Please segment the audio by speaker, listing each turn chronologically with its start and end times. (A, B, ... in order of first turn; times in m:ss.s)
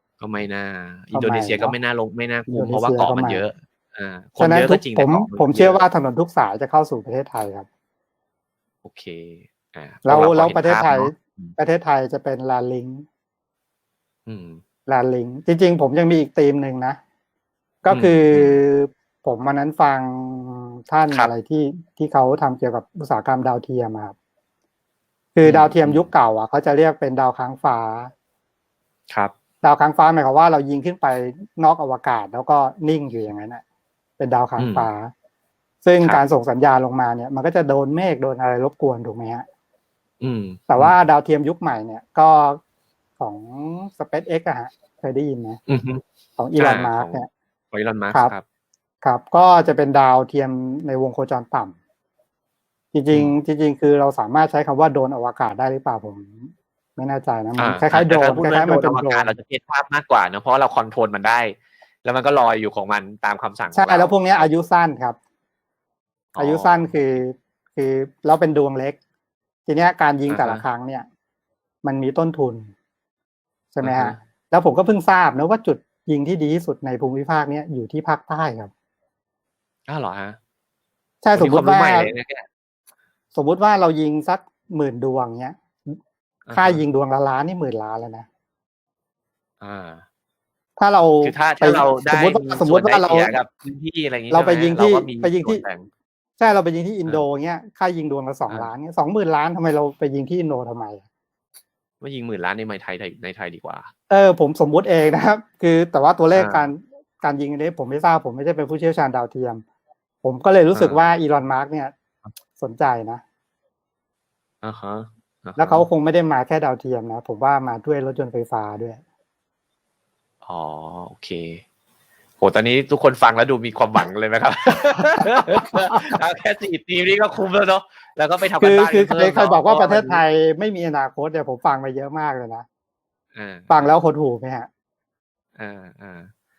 0:00.2-0:05.8 A
0:01.1-0:01.8 B
0:02.5-0:03.4 B
0:04.4-0:07.6 B
0:08.8-0:11.5 A
0:10.0-0:13.0 B
0:14.3-0:14.6 A
0:14.9-0:17.0 B
0:17.8-0:24.1 B
0:17.9-0:18.6 A
0:25.3-0:28.1 B
0:25.4-0:26.1 A
0:29.6-0:33.6 B
0:34.2-0:35.1 B
0:34.6-0:34.9 A
0:35.8-0:39.4 B
0:40.2-0:41.0 A
0:40.7-0:42.6 B
0:43.2-0:45.6 B
0:45.7-0:46.0 A
0:46.4-0:47.3 B
0:46.6-0:48.4 A
0:49.0-0:51.7 B
0:52.9-0:59.3 B
0:53.1-0:53.4 A
0:57.6-1:04.5 A
1:03.7-1:05.2 B
1:06.3-1:07.0 A
1:06.4-1:09.0 B
1:09.7-1:11.0 B
1:10.3-1:10.6 A
1:11.8-1:12.7 B
1:13.7-1:18.7 B
1:13.8-1:14.2 A
1:19.9-1:20.4 A
1:21.2-1:22.1 B
1:21.3-1:22.4 A
1:23.3-1:26.0 B
1:26.4-1:26.8 A
1:26.5-1:28.2 B
1:29.6-1:30.0 A
1:30.8-1:33.4 B
1:31.2-1:35.9 A
1:34.3-1:35.6 B
1:36.4-1:41.0 B
1:42.0-1:43.9 A
1:44.1-1:49.6 B
1:46.3-1:46.7 A
1:50.2-1:51.9 B
1:50.7-1:51.2 A
1:52.6-1:53.2 B
1:54.6-1:55.8 A
1:55.6-1:59.0 B
2:00.4-2:01.6 A
2:02.4-2:10.2 A
2:05.2-2:06.1 B
2:08.6-2:12.6 B
2:13.3-2:13.8 A
2:13.7-2:14.7 B
2:15.6-2:16.3 A